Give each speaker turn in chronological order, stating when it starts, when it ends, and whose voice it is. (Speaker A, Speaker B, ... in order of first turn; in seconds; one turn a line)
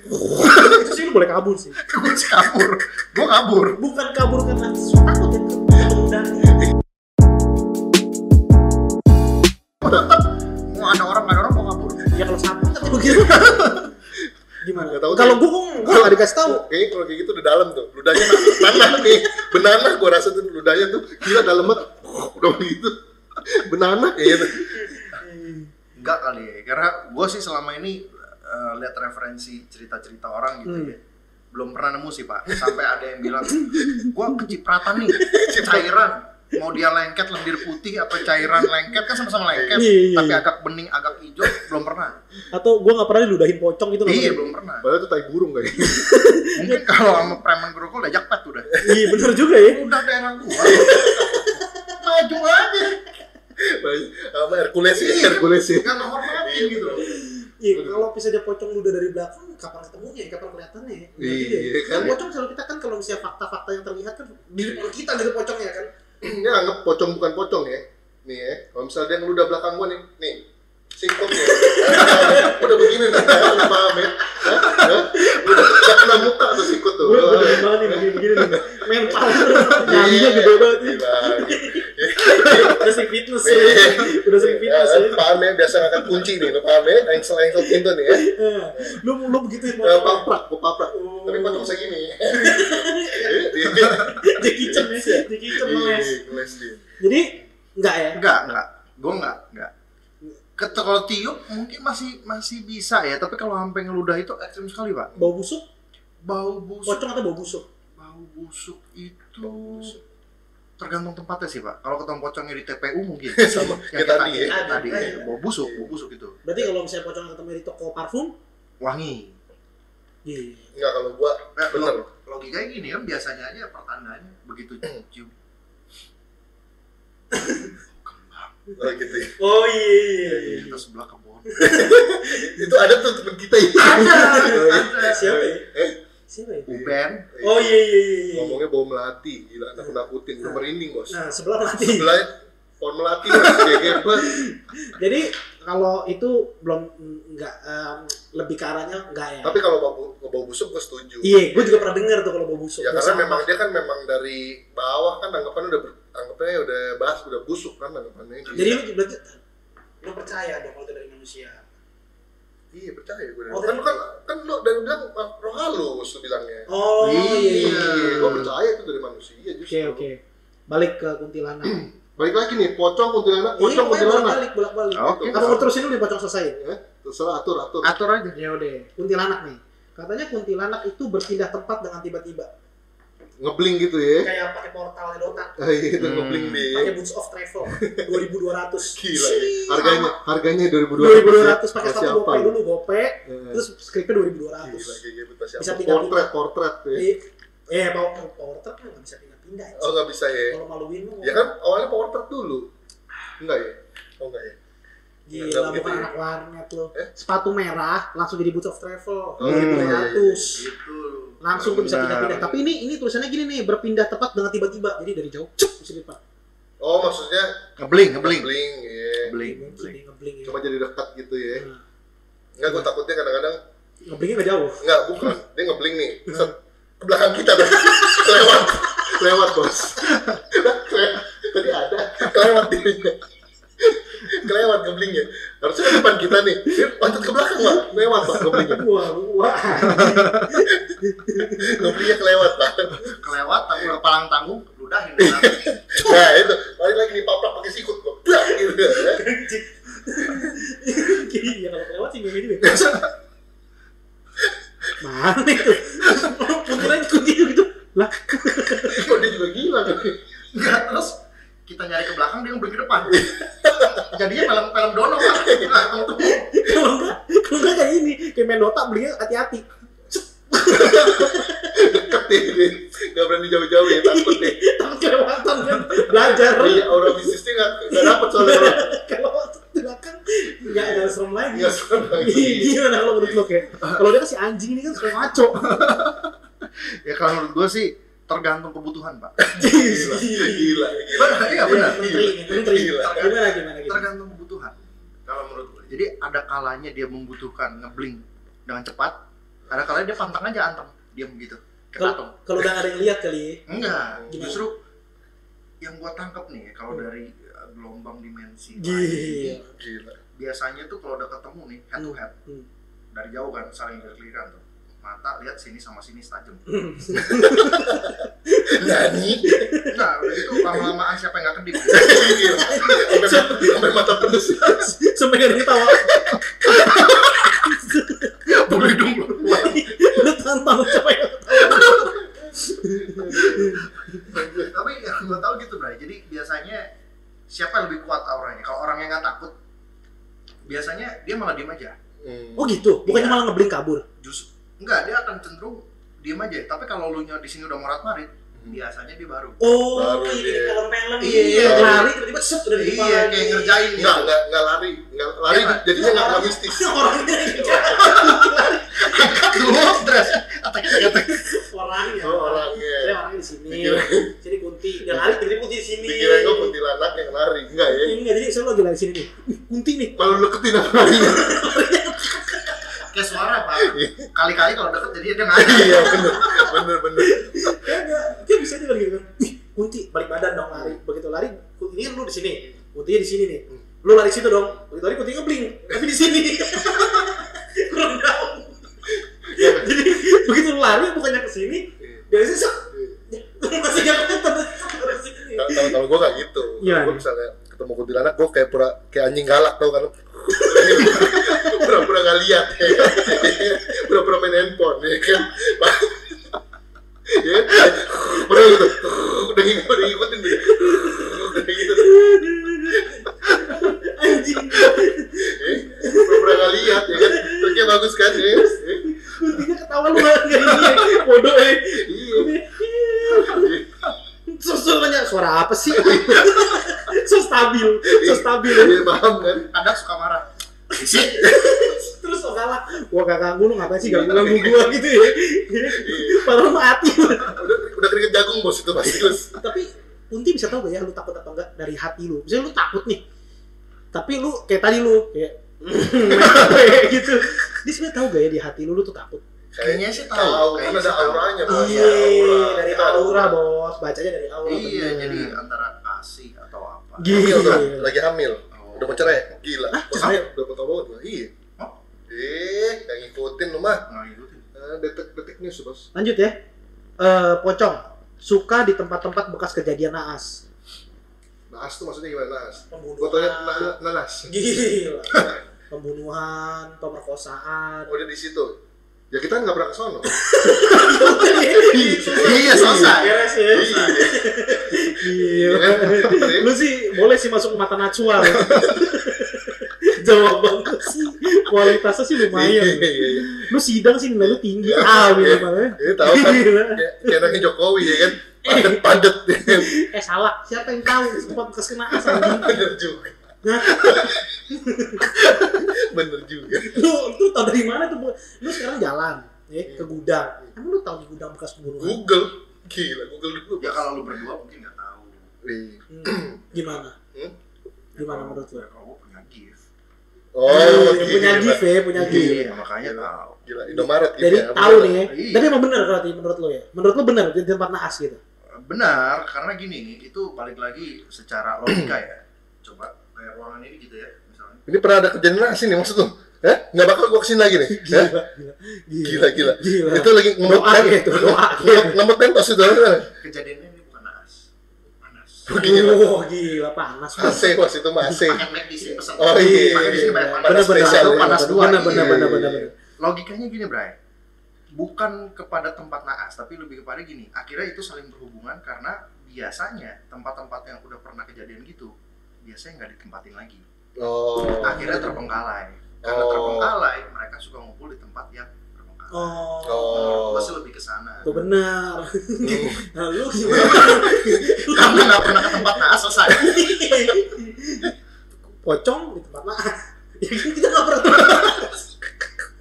Speaker A: 0.2-1.8
Speaker B: 0.3-0.7
Speaker B: 1.8-3.8
Speaker A: 3.8-6.6
Speaker B: 9.8-12.0
Speaker A: 12.1-13.9
Speaker B: 13.1-13.9
Speaker A: 14.6-16.6
Speaker C: 14.8-24.9
Speaker A: 18.1-19.2
Speaker A: 24.5-25.7
Speaker B: 26.0-31.0
Speaker A: 30.6-30.9
Speaker B: 31.5-42.2
Speaker A: 33.4-34.1
Speaker A: 35.1-35.8
Speaker C: 39.5-39.9
Speaker A: 39.7-40.4
Speaker A: 42.5-44.5
Speaker B: 44.0-44.9
Speaker C: 44.8-46.2
Speaker A: 45.8-46.9
Speaker B: 46.6-48.8
Speaker A: 48.8-49.8
Speaker B: 49.5-53.0
Speaker A: 50.6-51.6
Speaker C: 50.7-51.1
Speaker C: 53.6-57.1
Speaker B: 54.9-57.2
Speaker A: 57.0-65.9
Speaker C: 57.7-58.0
Speaker C: 61.2-62.1
Speaker C: 66.2-70.4
Speaker C: 71.0-89.0
Speaker A: 71.3-73.7
Speaker B: 74.6-76.0
Speaker A: 75.2-75.8
Speaker A: 77.0-85.3
Speaker A: 85.9-86.3
Speaker A: 87.6-90.3
Speaker C: 89.8-96.8
Speaker A: 90.9-91.7
Speaker A: 92.3-96.2
Speaker B: 93.7-94.2
Speaker A: 97.0-98.2
Speaker B: 98.1-99.7
Speaker B: 100.6-105.1
Speaker A: 105.1-105.6
Speaker B: 106.2-107.0
Speaker A: 106.8-107.6
Speaker B: 108.0-110.0
Speaker C: 109.4-110.0
Speaker B: 110.8-116.4
Speaker C: 113.3-115.9
Speaker A: 114.3-115.3
Speaker A: 116.4-118.3
Speaker B: 118.8-119.3
Speaker A: 120.2-120.7
Speaker C: 120.7-122.1
Speaker B: 121.5-125.3
Speaker A: 127.3-127.7
Speaker B: 127.9-128.5
Speaker C: 128.8-129.3
Speaker A: 129.4-130.8
Speaker B: 130.3-131.7
Speaker A: 131.5-132.7
Speaker C: 131.7-136.0
Speaker A: 133.7-135.7
Speaker B: 133.9-135.3
Speaker A: 136.3-136.7
Speaker B: 136.7-137.3
Speaker C: 136.7-137.8
Speaker A: 137.4-138.6
Speaker C: 138.3-141.2
Speaker A: 139.8-142.2
Speaker C: 141.8-144.5
Speaker A: 143.3-149.6
Speaker C: 149.4-151.8
Speaker A: 151.2-153.5
Speaker C: 152.8-158.8
Speaker B: 158.4-158.8
Speaker A: 158.5-159.4
Speaker A: 160.0-161.6
Speaker C: 162.7-166.7
Speaker A: 163.5-164.0
Speaker A: 166.7-168.4
Speaker B: 167.0-168.5
Speaker C: 167.5-170.1
Speaker A: 169.7-170.2
Speaker A: 170.7-171.8
Speaker C: 171.6-174.4
Speaker A: 173.6-176.6
Speaker B: 174.9-175.6
Speaker C: 175.0-175.7
Speaker C: 176.6-177.9
Speaker A: 177.8-182.5
Speaker C: 183.4-184.3
Speaker A: 184.2-185.6
Speaker C: 185.6-186.9
Speaker B: 186.0-186.7
Speaker A: 186.7-190.2
Speaker C: 187.6-188.1
Speaker C: 188.9-192.5
Speaker A: 191.0-195.0
Speaker C: 193.2-193.6
Speaker C: 194.6-197.1
Speaker A: 195.6-196.3
Speaker A: 196.9-200.0
Speaker C: 199.8-200.6
Speaker A: 200.5-201.5
Speaker C: 201.2-202.7
Speaker C: 203.4-204.6
Speaker A: 205.3-210.6
Speaker C: 205.3-206.1
Speaker C: 209.4-210.5
Speaker B: 209.4-212.6
Speaker A: 211.4-216.2
Speaker C: 216.8-219.3
Speaker B: 217.8-218.5
Speaker B: 219.2-220.0
Speaker A: 219.4-220.6
Speaker C: 220.4-221.7
Speaker C: 222.6-223.6
Speaker A: 224.1-225.2
Speaker C: 224.8-233.2
Speaker A: 227.7-229.2
Speaker C: 233.8-238.9
Speaker A: 237.6-242.1
Speaker B: 240.0-240.4
Speaker C: 241.4-243.2
Speaker B: 243.0-246.5
Speaker C: 245.2-249.2
Speaker A: 248.4-253.0
Speaker C: 250.2-250.5
Speaker A: 255.0-259.1
Speaker C: 258.9-260.2
Speaker B: 260.5-263.3
Speaker C: 263.1-264.1
Speaker B: 263.9-266.4
Speaker C: 265.2-266.4
Speaker A: 266.4-272.0
Speaker C: 270.6-274.6
Speaker A: 273.8-277.4
Speaker C: 276.3-278.9
Speaker A: 277.9-285.8
Speaker C: 280.6-283.5
Speaker B: 285.6-286.3
Speaker B: 287.0-289.4
Speaker C: 289.4-293.3
Speaker A: 289.5-294.1
Speaker B: 291.2-292.0
Speaker B: 293.0-299.1
Speaker B: 299.7-302.4
Speaker A: 302.0-303.6
Speaker B: 303.7-304.8
Speaker C: 304.1-304.6
Speaker A: 304.3-304.6
Speaker B: 305.8-309.6
Speaker A: 308.8-309.7
Speaker C: 309.6-310.2
Speaker B: 310.3-312.3
Speaker A: 312.0-312.7
Speaker B: 313.1-316.6
Speaker A: 316.7-320.9
Speaker C: 317.2-319.7
Speaker B: 319.8-322.6
Speaker A: 321.9-323.9
Speaker C: 321.9-324.9
Speaker A: 324.6-326.2
Speaker B: 326.6-327.7
Speaker A: 327.5-328.7
Speaker B: 328.5-329.8
Speaker A: 329.4-334.3
Speaker C: 331.6-332.4
Speaker B: 331.7-332.1
Speaker C: 333.0-334.7
Speaker B: 334.6-336.9
Speaker B: 337.5-339.5
Speaker B: 340.6-341.9
Speaker C: 342.2-342.8
Speaker A: 342.6-344.0
Speaker B: 343.0-343.4
Speaker B: 344.2-349.6
Speaker A: 349.6-353.8
Speaker C: 349.9-350.8
Speaker B: 351.2-352.1
Speaker C: 351.6-352.1
Speaker B: 352.7-354.3
Speaker C: 353.9-358.0
Speaker B: 355.5-356.0
Speaker A: 355.9-359.6
Speaker B: 357.6-361.5
Speaker A: 361.2-366.8
Speaker C: 362.2-364.3
Speaker C: 366.0-368.2
Speaker A: 367.9-373.1
Speaker C: 370.1-371.8
Speaker B: 372.9-376.6
Speaker C: 373.7-374.3
Speaker C: 375.5-378.1
Speaker A: 376.2-396.0
Speaker C: 380.7-381.0
Speaker C: 389.4-389.9
Speaker C: 392.9-393.2
Speaker C: 395.5-406.5
Speaker A: 396.8-397.2
Speaker A: 400.5-402.0
Speaker A: 402.9-403.9
Speaker C: 407.3-413.8
Speaker A: 408.4-408.7
Speaker A: 410.5-423.7
Speaker C: 415.4-419.1
Speaker C: 421.9-422.5
Speaker C: 423.3-424.0
Speaker A: 424.5-429.1
Speaker C: 425.9-426.9
Speaker C: 428.1-429.7
Speaker B: 429.7-431.5
Speaker A: 431.0-437.6
Speaker C: 431.4-431.9
Speaker C: 434.0-435.0
Speaker C: 435.9-436.6
Speaker C: 437.4-439.6
Speaker A: 439.2-443.2
Speaker A: 444.1-449.4
Speaker C: 449.7-453.6
Speaker B: 449.8-452.5
Speaker A: 451.7-455.5
Speaker B: 454.6-457.9
Speaker A: 457.2-458.1
Speaker C: 457.3-461.5
Speaker B: 458.7-459.4
Speaker A: 459.9-460.4
Speaker C: 462.3-464.1
Speaker B: 464.1-464.6
Speaker C: 464.7-466.1
Speaker A: 466.1-466.6
Speaker A: 467.2-470.6
Speaker C: 471.7-474.5
Speaker A: 472.9-473.9
Speaker A: 474.5-478.2
Speaker C: 475.3-475.6
Speaker C: 478.1-478.8
Speaker C: 479.3-486.8
Speaker A: 480.3-502.8
Speaker B: 482.3-484.2
Speaker C: 488.4-489.0
Speaker B: 488.6-488.9
Speaker C: 491.7-493.7
Speaker C: 494.4-499.9
Speaker C: 501.1-501.6
Speaker C: 502.1-504.6
Speaker A: 503.6-505.9
Speaker C: 505.2-507.0
Speaker A: 506.8-512.2
Speaker C: 512.0-514.1
Speaker B: 513.8-515.4
Speaker C: 515.6-516.7
Speaker A: 516.1-517.1
Speaker A: 518.2-518.8
Speaker B: 518.2-519.8
Speaker C: 520.5-525.3
Speaker A: 520.6-522.6
Speaker B: 522.2-523.6
Speaker A: 523.9-528.4
Speaker B: 525.3-525.7
Speaker B: 528.8-534.8
Speaker C: 531.9-532.1
Speaker C: 534.9-538.3
Speaker A: 537.9-542.2
Speaker C: 539.2-543.3
Speaker B: 543.4-544.6
Speaker B: 545.2-545.7
Speaker C: 545.7-546.3
Speaker A: 545.8-548.5
Speaker C: 547.4-548.6
Speaker B: 548.4-552.4
Speaker C: 549.4-552.9
Speaker A: 549.5-552.9
Speaker B: 553.2-554.1
Speaker B: 554.9-562.1
Speaker B: 562.6-563.8
Speaker C: 564.2-565.2
Speaker B: 564.8-571.5
Speaker A: 564.8-565.5
Speaker C: 566.2-566.9
Speaker A: 569.3-570.5
Speaker C: 569.8-570.8
Speaker A: 571.4-578.1
Speaker C: 572.6-573.0
Speaker C: 573.6-575.3
Speaker B: 573.9-574.3
Speaker B: 574.8-577.1
Speaker A: 578.8-582.0